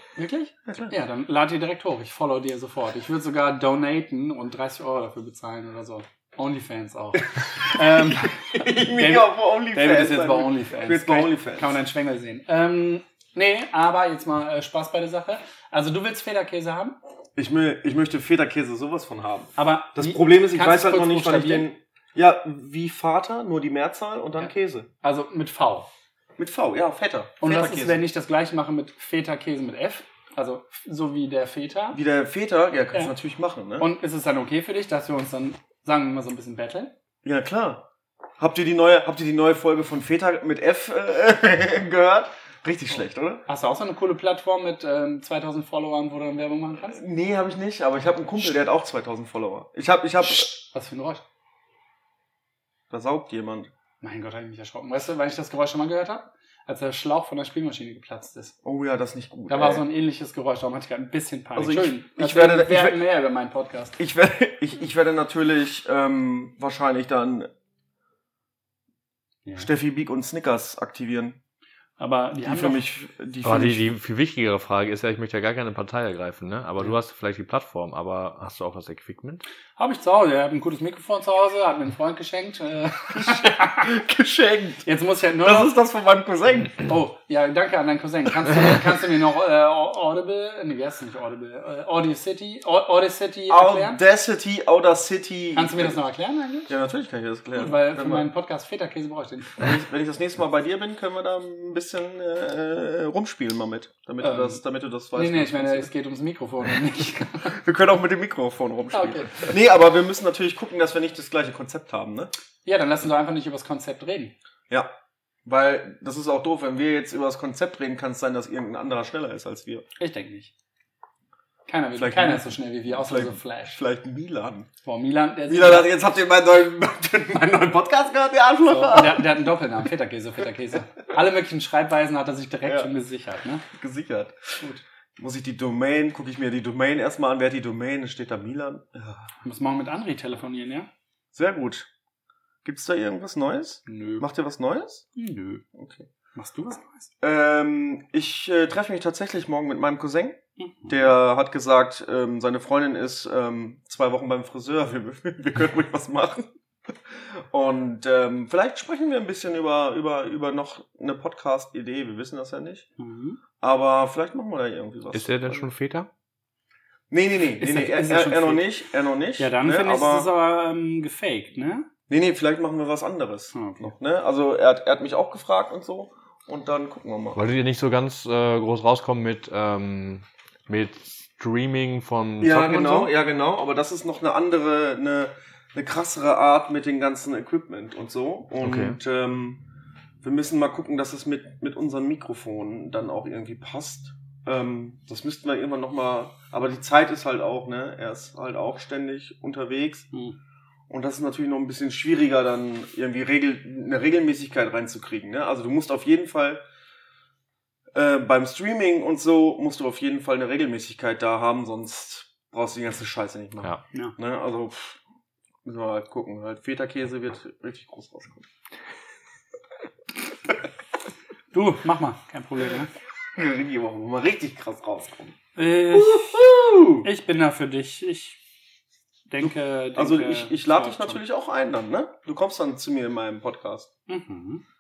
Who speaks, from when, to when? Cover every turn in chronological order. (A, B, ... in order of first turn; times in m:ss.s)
0:00.2-0:17.0 A
0:08.0-0:11.8 B
0:17.4-0:24.9 B
0:19.6-0:21.7 A
0:24.4-0:25.9 A
0:26.4-0:28.0 B
0:27.4-0:32.0 A
0:31.9-0:33.9 B
0:33.8-0:36.9 A
0:37.2-0:37.9 B
0:38.4-0:43.4 B
0:43.5-0:47.0 A
0:46.9-0:50.5 B
0:50.2-0:51.2 A
0:52.9-0:53.7 B
0:54.0-0:58.6 A
0:58.6-0:59.8 B
0:59.5-1:04.0 A
1:01.6-1:03.0 B
1:04.0-1:07.5 B
1:09.6-1:11.4 B
1:12.0-1:12.8 A
1:12.4-1:13.9 B
1:13.4-1:19.4 C
1:19.8-1:23.9 A
1:23.1-1:24.8 B
1:24.8-1:25.7 A
1:25.4-1:26.8 B
1:26.8-1:34.0 A
1:33.5-1:36.0 B
1:35.5-1:36.7 A
1:36.7-1:38.3 B
1:37.5-1:39.7 A
1:39.6-1:45.9 B
1:44.2-1:44.6 A
1:45.1-1:47.6 A
1:47.4-1:52.3 B
1:48.9-1:49.5 A
1:52.6-1:54.4 A
1:55.4-1:59.8 B
2:00.0-2:00.5 A
2:01.7-2:03.8 A
2:02.0-2:04.7 B
2:04.8-2:05.9 A
2:05.5-2:09.4 B
2:08.6-2:13.6 A
2:12.6-2:12.9 B
2:13.7-2:14.6 B
2:15.2-2:19.3 B
2:19.4-2:20.9 A
2:21.3-2:21.9 B
2:22.6-2:25.1 B
2:23.9-2:24.2 A
2:25.1-2:25.6 A
2:25.7-2:26.1 B
2:26.4-2:27.1 A
2:27.2-2:42.9 B
2:30.6-2:31.1 A
2:43.0-2:43.4 A
2:43.6-2:45.7 B
2:45.1-2:46.1 C
2:47.1-2:50.3 B
2:47.6-2:48.6 A
2:49.4-2:51.9 A
2:52.1-2:57.4 B
2:53.5-2:53.9 A
2:57.4-3:03.1 C
3:02.4-3:09.6 B
3:08.6-3:09.0 C
3:10.2-3:20.1 B
3:20.1-3:20.4 A
3:20.9-3:26.6 B
3:27.9-3:35.0 B
3:35.6-3:38.5 B
3:41.5-3:42.9 A
3:43.4-3:45.4 B
3:45.6-3:46.4 A
3:45.9-3:47.1 B
3:47.0-3:48.4 A
3:49.3-3:51.2 A
3:49.4-3:53.9 B
3:54.1-3:54.6 A